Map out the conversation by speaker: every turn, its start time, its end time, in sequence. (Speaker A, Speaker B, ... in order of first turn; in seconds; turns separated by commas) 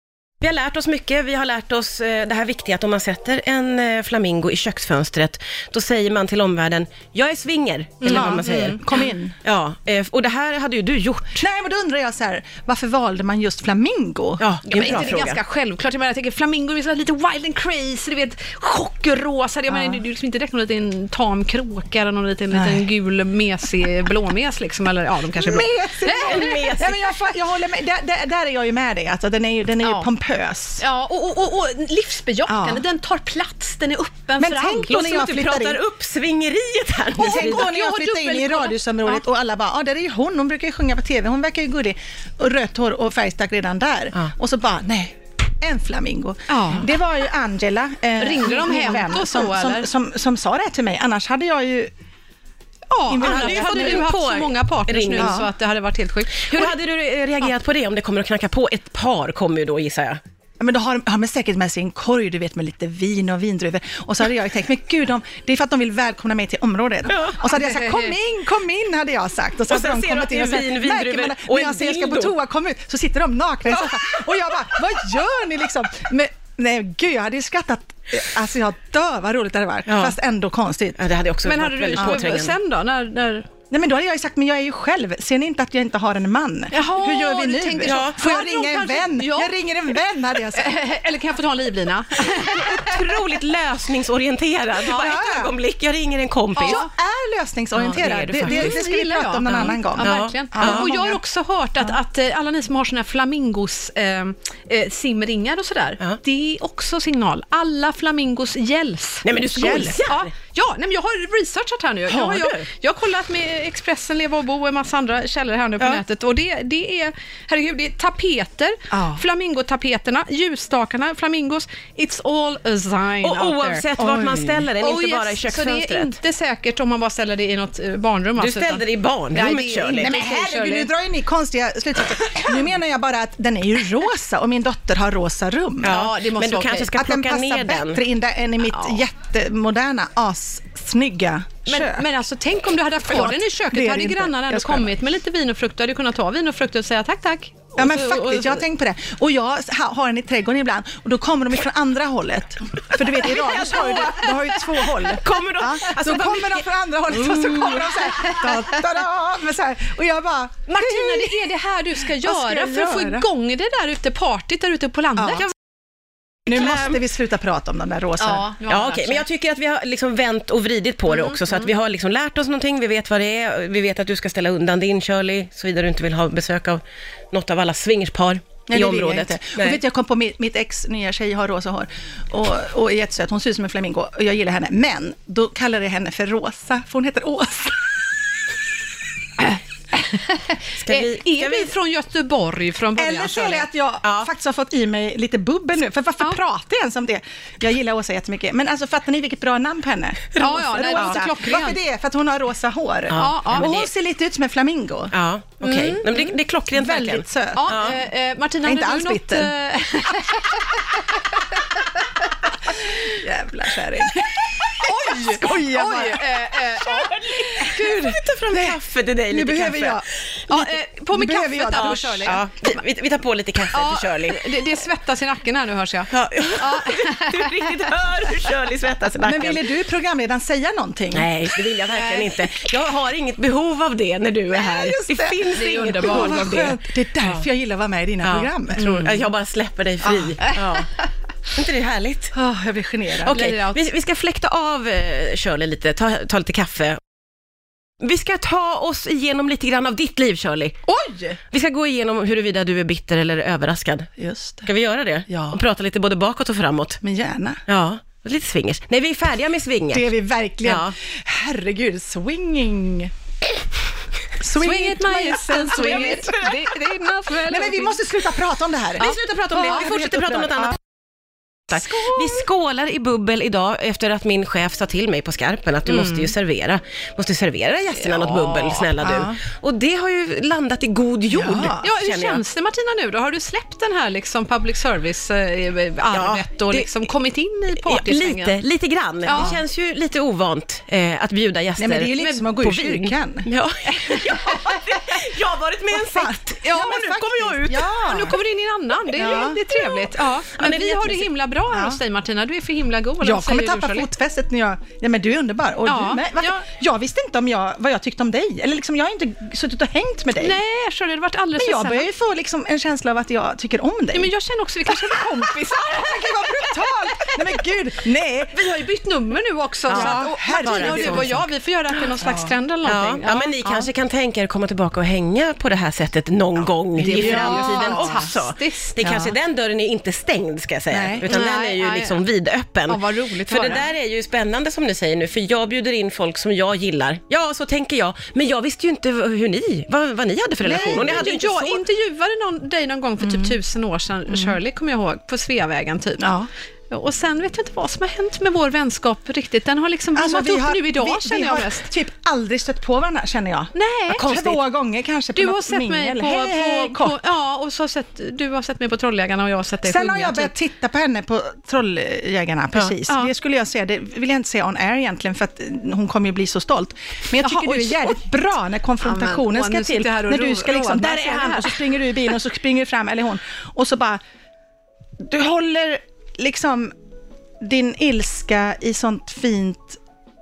Speaker A: 0.4-11.4, Speaker B: 8.0-8.8, Speaker C: 8.1-9.3, Speaker C: 11.4-15.2, Speaker A: 14.4-15.4, Speaker B: 14.7-26.7, Speaker C: 19.7-20.0, Speaker C: 22.5-22.9, Speaker C: 25.3-30.8, Speaker A: 26.1-27.1, Speaker B: 30.8-34.9, Speaker C: 32.5-32.8, Speaker C: 34.4-35.8, Speaker A: 34.9-37.7, Speaker B: 37.2-39.2, Speaker C: 37.2-51.9, Speaker B: 46.5-46.9, Speaker B: 48.2-49.9, Speaker B: 52.9-56.7, Speaker C: 53.1-54.1, Speaker A: 53.2-55.4, Speaker C: 55.2-55.5, Speaker A: 56.4-60.2, Speaker C: 60.6-81.0, Speaker A: 67.1-67.4, Speaker B: 67.6-68.1, Speaker A: 69.7-72.3, Speaker A: 79.9-80.2, Speaker A: 81.0-82.6, Speaker B: 81.4-83.5, Speaker C: 82.0-82.2, Speaker C: 83.7-90.7, Speaker B: 86.7-89.5, Speaker A: 87.8-88.2, Speaker B: 90.5-93.0, Speaker A: 92.6-96.8, Speaker C: 94.8-95.5, Speaker C: 96.6-101.2, Speaker B: 96.6-96.9, Speaker A: 97.8-98.8, Speaker B: 98.3-123.9, Speaker A: 99.5-100.9, Speaker A: 109.2-110.3, Speaker C: 109.5-110.0, Speaker A: 112.1-112.7, Speaker C: 118.9-119.2, Speaker A: 123.2-126.2, Speaker C: 124.0-124.7, Speaker B: 124.8-130.9, Speaker A: 128.4-130.1, Speaker C: 129.9-136.0, Speaker A: 135.8-138.0, Speaker B: 135.8-136.9, Speaker C: 136.9-142.1, Speaker B: 141.7-148.6, Speaker C: 143.1-144.9, Speaker C: 147.8-161.4, Speaker A: 153.5-154.2, Speaker B: 153.5-154.2, Speaker A: 155.0-158.3, Speaker B: 160.7-165.5, Speaker C: 162.1-163.3, Speaker C: 165.2-165.4, Speaker C: 166.5-168.5, Speaker A: 166.5-166.9, Speaker B: 168.2-169.3, Speaker A: 168.7-176.8, Speaker A: 177.3-179.8, Speaker C: 178.7-188.0, Speaker B: 189.9-193.7, Speaker A: 190.8-191.7, Speaker C: 193.0-205.1, Speaker A: 194.0-194.3, Speaker B: 200.4-201.8, Speaker A: 203.1-203.9, Speaker B: 203.1-203.8, Speaker A: 205.1-208.0, Speaker B: 205.6-206.3, Speaker C: 206.7-207.9, Speaker B: 207.5-212.0, Speaker C: 208.6-209.5, Speaker C: 212.7-222.4, Speaker B: 214.7-217.8, Speaker A: 217.1-220.1, Speaker B: 220.5-222.4, Speaker A: 221.7-224.6, Speaker B: 223.7-227.9, Speaker A: 226.1-229.7, Speaker C: 229.2-232.7, Speaker A: 231.1-236.8, Speaker C: 234.5-239.0, Speaker B: 235.5-236.7, Speaker A: 238.2-240.9, Speaker B: 238.8-239.2, Speaker C: 240.0-240.4, Speaker A: 241.5-242.3, Speaker C: 242.3-243.4, Speaker A: 243.2-247.0, Speaker B: 243.2-243.8, Speaker A: 248.0-250.8, Speaker C: 250.9-251.4, Speaker A: 251.5-254.1, Speaker C: 254.2-254.7, Speaker A: 254.7-257.0, Speaker C: 255.3-255.6, Speaker C: 257.0-257.6, Speaker A: 257.7-260.1, Speaker C: 259.9-263.1, Speaker A: 260.6-260.9, Speaker C: 264.4-266.5, Speaker B: 264.4-268.0, Speaker A: 265.7-266.6, Speaker C: 267.4-270.8, Speaker A: 269.0-270.8, Speaker A: 271.7-282.4, Speaker C: 271.8-272.4, Speaker B: 275.9-276.3, Speaker B: 278.1-278.9, Speaker C: 279.0-279.4, Speaker C: 281.3-281.8, Speaker B: 281.8-288.6, Speaker A: 286.1-286.9, Speaker A: 287.8-297.9, Speaker B: 289.3-289.6, Speaker C: 289.3-289.6, Speaker C: 291.8-293.5, Speaker C: 294.1-295.2, Speaker C: 295.9-298.4, Speaker B: 296.6-297.0, Speaker B: 298.0-304.1, Speaker C: 299.1-299.8, Speaker A: 300.5-301.3, Speaker C: 301.7-302.0, Speaker C: 303.2-310.6, Speaker B: 305.9-306.6, Speaker B: 310.4-312.1, Speaker C: 311.6-314.3, Speaker B: 314.1-317.6, Speaker C: 314.9-318.6, Speaker B: 318.5-323.9, Speaker A: 319.9-321.4, Speaker C: 319.9-321.5, Speaker C: 322.2-322.5, Speaker A: 322.9-341.8, Speaker B: 327.0-329.2, Speaker C: 327.0-328.3, Speaker C: 329.0-329.3, Speaker C: 330.9-331.3, Speaker B: 331.3-332.2, Speaker B: 332.9-333.8, Speaker C: 340.6-341.3, Speaker B: 340.7-346.3, Speaker C: 343.2-343.5, Speaker C: 344.3-344.6, Speaker C: 346.2-346.5, Speaker B: 346.9-351.9, Speaker C: 350.1-357.2, Speaker B: 353.8-354.5, Speaker B: 355.4-360.5, Speaker C: 359.9-374.2, Speaker B: 363.1-363.3, Speaker B: 367.4-368.2, Speaker B: 369.0-371.8, Speaker C: 375.2-376.9, Speaker C: 377.6-380.0